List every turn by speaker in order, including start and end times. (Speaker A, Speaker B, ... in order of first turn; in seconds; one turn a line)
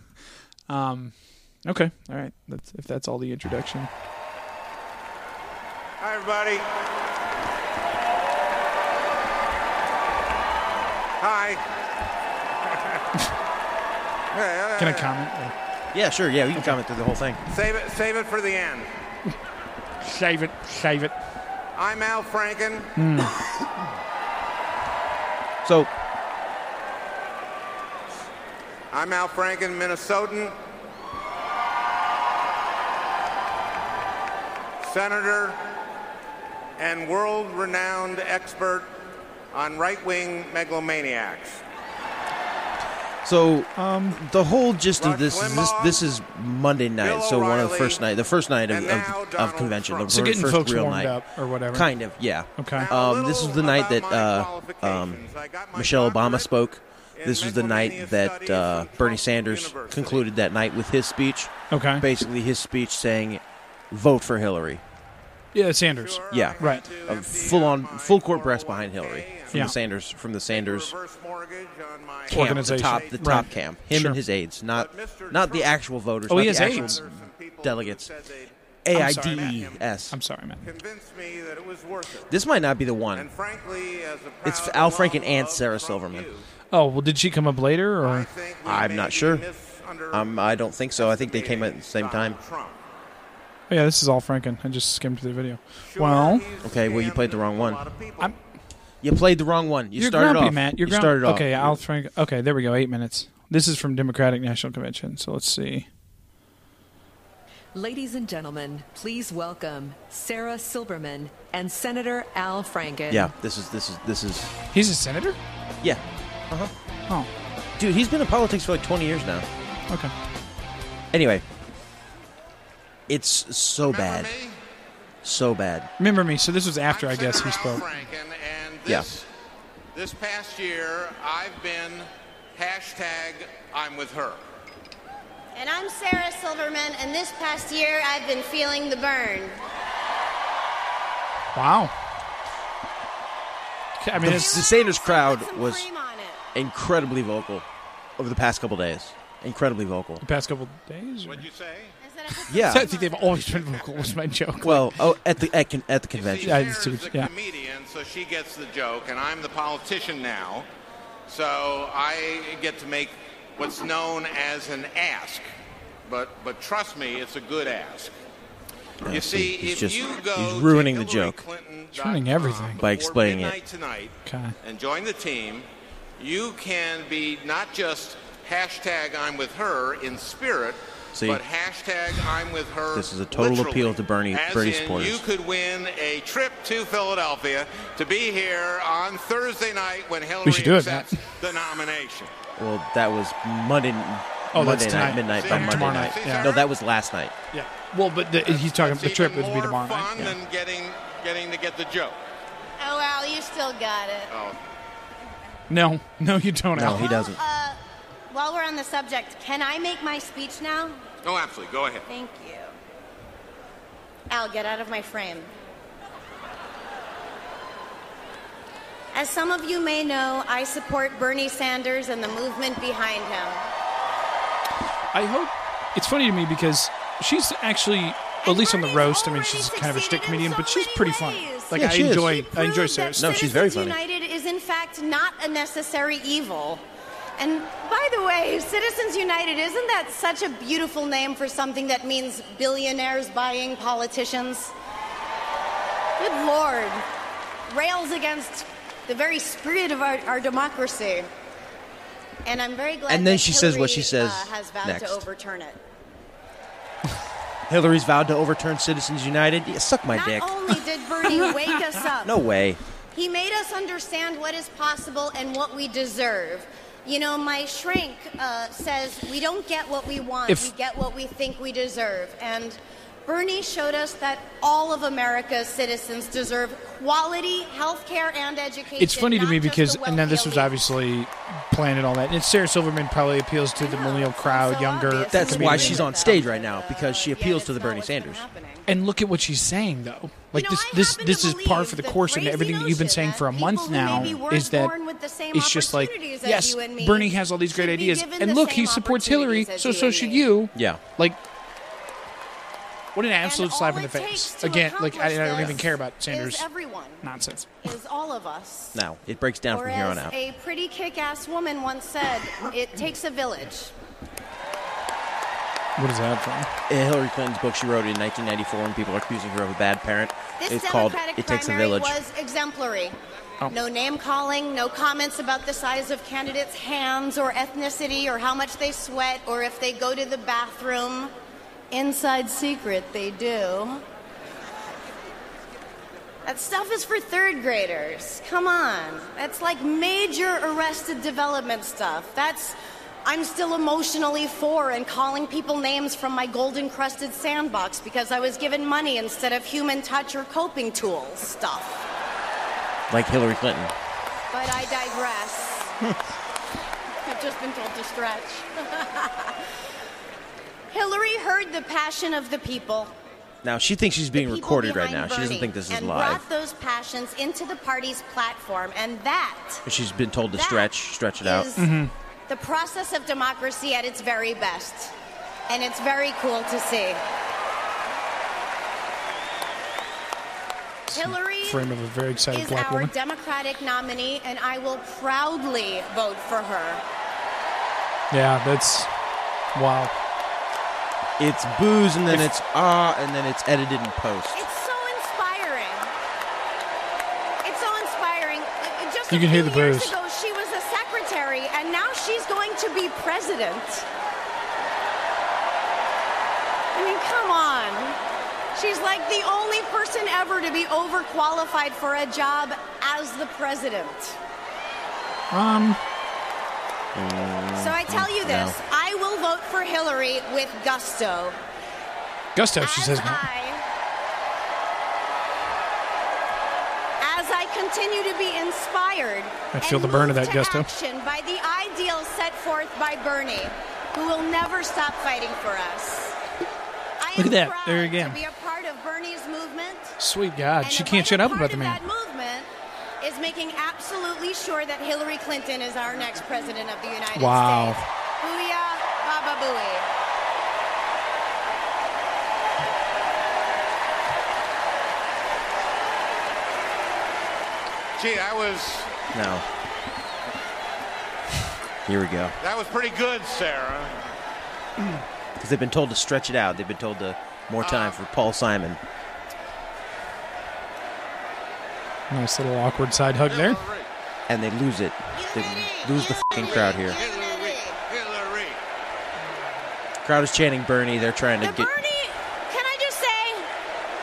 Speaker A: 0.7-3.9
Speaker B: 6.0-6.7
Speaker B: 11.2-11.6
Speaker B: 14.3-15.1
Speaker A: 14.8-15.6
Speaker C: 15.9-17.4
Speaker B: 17.5-18.9
Speaker A: 20.0-21.1
Speaker B: 21.8-22.9
Speaker A: 23.0-23.3
Speaker C: 25.6-25.9
Speaker B: 28.9-30.6
Speaker B: 34.8-35.7
Speaker B: 36.8-38.9
Speaker B: 39.5-41.6
Speaker C: 43.2-64.8
Speaker A: 43.8-44.2
Speaker B: 45.0-46.0
Speaker B: 47.0-48.0
Speaker B: 48.7-50.2
Speaker A: 50.1-51.9
Speaker A: 52.6-52.9
Speaker B: 52.8-56.5
Speaker B: 57.2-60.3
Speaker A: 61.7-62.0
Speaker A: 65.5-66.8
Speaker B: 66.0-69.8
Speaker C: 66.3-70.9
Speaker B: 70.5-73.5
Speaker A: 72.3-74.2
Speaker C: 72.3-78.1
Speaker B: 74.7-75.7
Speaker A: 76.3-77.0
Speaker B: 76.3-79.8
Speaker C: 78.8-80.1
Speaker A: 78.9-80.6
Speaker B: 80.6-82.3
Speaker C: 82.3-83.3
Speaker B: 83.2-86.5
Speaker C: 84.4-86.3
Speaker A: 86.7-88.3
Speaker B: 88.0-90.4
Speaker C: 88.6-89.5
Speaker C: 90.1-92.4
Speaker B: 91.0-92.8
Speaker A: 93.7-96.4
Speaker B: 95.9-98.3
Speaker C: 96.6-97.8
Speaker C: 99.0-101.8
Speaker A: 100.0-105.9
Speaker D: 107.7-113.3
Speaker C: 113.1-114.6
Speaker A: 114.7-115.4
Speaker C: 115.8-116.7
Speaker C: 117.8-119.5
Speaker C: 121.1-121.5
Speaker C: 123.1-124.3
Speaker B: 123.8-124.6
Speaker C: 125.2-125.9
Speaker A: 126.0-127.8
Speaker B: 126.9-129.3
Speaker B: 129.9-134.4
Speaker E: 135.6-139.6
Speaker A: 141.6-141.9
Speaker A: 144.0-144.6
Speaker C: 144.2-145.8
Speaker E: 144.2-146.4
Speaker C: 146.5-147.7
Speaker C: 148.2-150.2
Speaker A: 150.2-151.4
Speaker B: 151.2-151.9
Speaker E: 152.0-153.9
Speaker C: 152.5-152.9
Speaker A: 152.6-155.0
Speaker C: 154.6-156.7
Speaker B: 156.1-160.7
Speaker A: 156.4-157.3
Speaker B: 161.3-165.5
Speaker B: 166.1-168.1
Speaker C: 169.0-171.4
Speaker B: 169.1-175.7
Speaker A: 171.9-172.8
Speaker C: 172.8-173.6
Speaker A: 174.2-174.6
Speaker B: 176.2-192.3
Speaker C: 181.1-181.4
Speaker C: 182.9-185.2
Speaker A: 190.4-191.2
Speaker C: 192.6-197.3
Speaker A: 194.5-196.5
Speaker B: 195.0-196.7
Speaker A: 197.5-200.3
Speaker B: 198.5-202.2
Speaker E: 202.8-204.3
Speaker B: 204.3-204.6
Speaker A: 205.7-207.1
Speaker C: 206.7-207.4
Speaker E: 206.9-207.8
Speaker E: 208.3-211.0
Speaker B: 211.2-212.1
Speaker E: 212.1-212.8
Speaker E: 214.3-215.5
Speaker E: 219.1-223.6
Speaker A: 225.1-233.3
Speaker E: 228.4-236.8
Speaker C: 231.7-232.4
Speaker C: 233.2-234.0
Speaker E: 237.4-244.7
Speaker E: 246.2-247.1
Speaker E: 247.7-251.3
Speaker E: 252.4-255.8
Speaker C: 253.1-255.3
Speaker C: 257.7-260.5
Speaker E: 260.1-262.4
Speaker C: 262.2-262.8
Speaker E: 263.1-280.9
Speaker A: 279.0-286.4
Speaker E: 283.8-288.9
Speaker C: 285.3-288.4
Speaker A: 288.9-294.9
Speaker E: 290.5-300.5
Speaker C: 294.1-294.4
Speaker A: 295.5-301.4
Speaker C: 300.8-301.0
Speaker A: 303.1-306.6
Speaker E: 303.4-307.2
Speaker A: 307.2-307.7
Speaker E: 307.8-309.0
Speaker C: 308.9-310.3
Speaker E: 309.7-313.9
Speaker A: 316.0-316.7
Speaker C: 316.9-322.2
Speaker E: 320.6-323.2
Speaker E: 323.7-331.3
Speaker E: 331.9-334.0
Speaker E: 336.4-352.1
Speaker C: 353.1-353.9
Speaker E: 354.5-355.9
Speaker E: 357.2-359.6
Speaker E: 360.9-363.1
Speaker C: 363.6-366.4
Speaker E: 364.4-369.8
Speaker C: 369.9-371.7
Speaker E: 370.6-372.0
Speaker A: 371.8-372.1
Speaker E: 372.5-375.1
Speaker E: 375.7-377.2
Speaker A: 381.1-383.1
Speaker E: 381.1-381.9
Speaker E: 382.5-387.0
Speaker A: 388.3-389.1
Speaker A: 389.8-390.1
Speaker C: 391.4-394.6
Speaker E: 394.5-396.1
Speaker E: 397.6-404.1
Speaker A: 399.3-400.1
Speaker E: 406.9-408.2
Speaker E: 408.8-414.4
Speaker A: 415.5-416.0
Speaker C: 417.1-418.8
Speaker E: 417.8-421.6
Speaker A: 422.6-423.4
Speaker E: 422.8-423.8
Speaker E: 427.2-436.4
Speaker A: 429.7-430.9
Speaker E: 437.2-440.2
Speaker A: 437.4-438.4
Speaker A: 440.2-442.0
Speaker E: 440.8-442.7
Speaker E: 443.2-450.1
Speaker A: 447.4-448.0
Speaker B: 458.2-459.1
Speaker C: 459.3-459.6
Speaker C: 462.1-462.6
Speaker B: 462.6-464.2
Speaker C: 465.6-469.0
Speaker B: 467.8-468.2
Speaker A: 472.3-473.8
Speaker B: 473.5-474.1
Speaker C: 474.5-477.2
Speaker E: 475.3-478.0
Speaker B: 477.1-478.8
Speaker C: 480.2-481.9
Speaker E: 481.6-483.7